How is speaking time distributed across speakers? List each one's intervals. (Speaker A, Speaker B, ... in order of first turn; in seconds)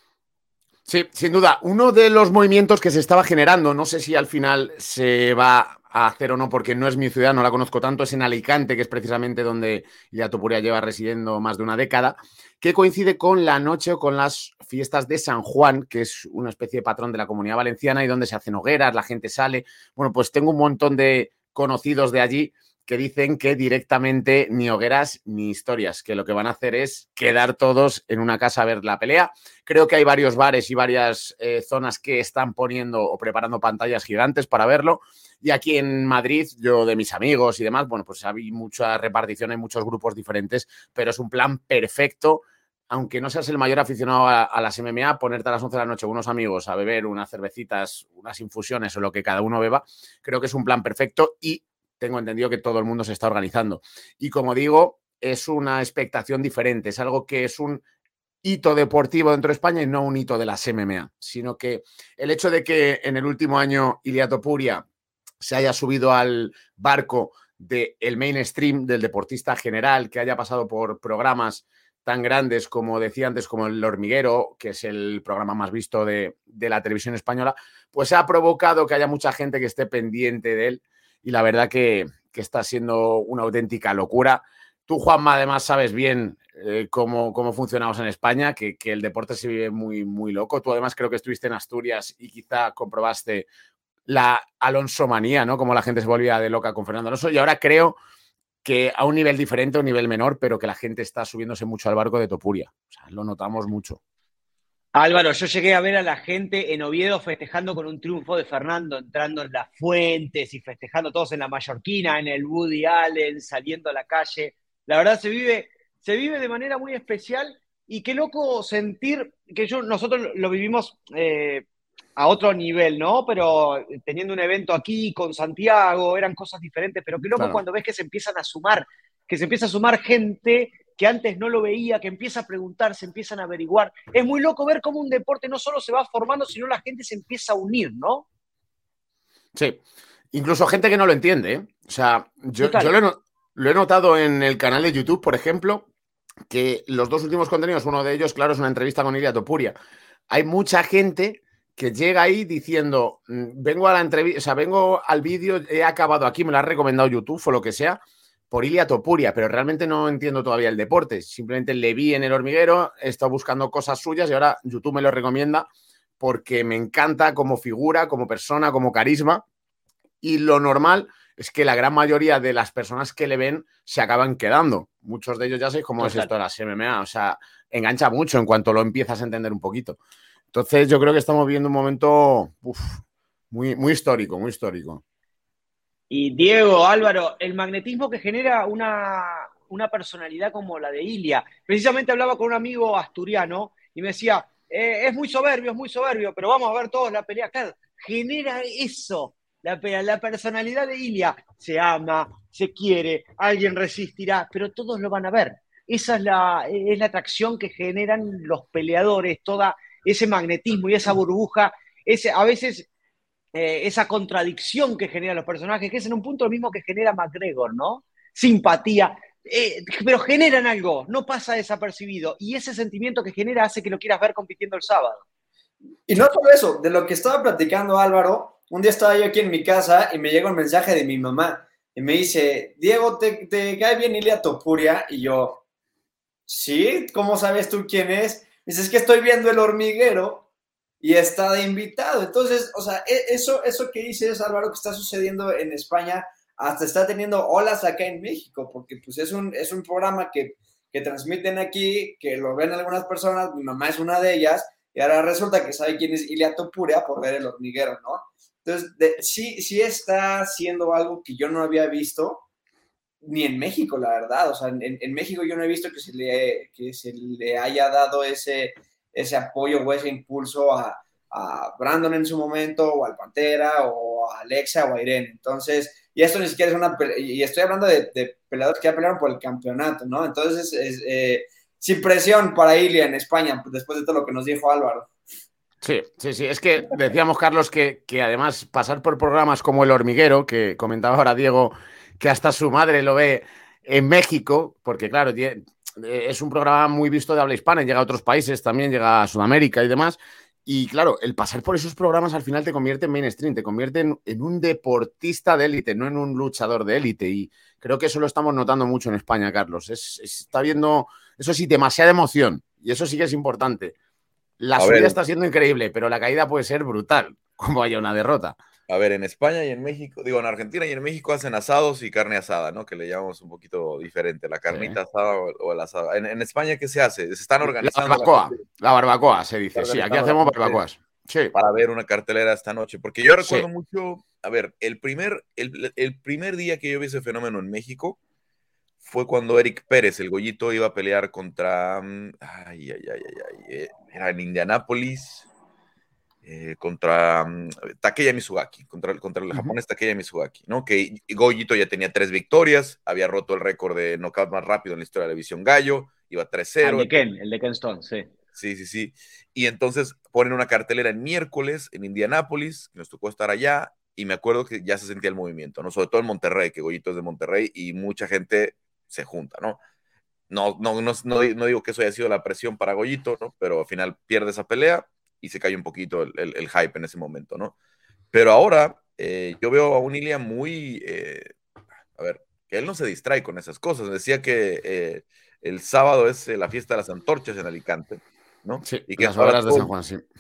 Speaker A: 0.9-57.8, 58.4-64.8, 65.4-93.5, 94.1-98.0, 98.6-104.0, 140.3-145.9, 146.5-149.8, 150.3-165.7, 166.2-169.4, 170.2-180.0, 180.5-182.9, 183.5-185.0, 285.8-313.9, 314.6-318.6, 324.7-325.0, 327.6-331.5, 333.4-333.7, 388.9-390.2
Speaker B: 105.0-121.7, 122.2-138.3, 142.6-142.9, 176.0-176.3, 186.1-212.9, 213.5-225.2, 356.8-358.3
Speaker C: 226.1-235.6, 236.5-240.5, 241.0-262.4, 263.2-285.1
Speaker D: 314.8-315.2, 318.9-328.6, 329.8-330.8, 331.5-338.2, 339.0-345.5, 346.4-357.2, 358.6-369.8, 370.5-377.8, 378.3-381.5, 382.2-389.9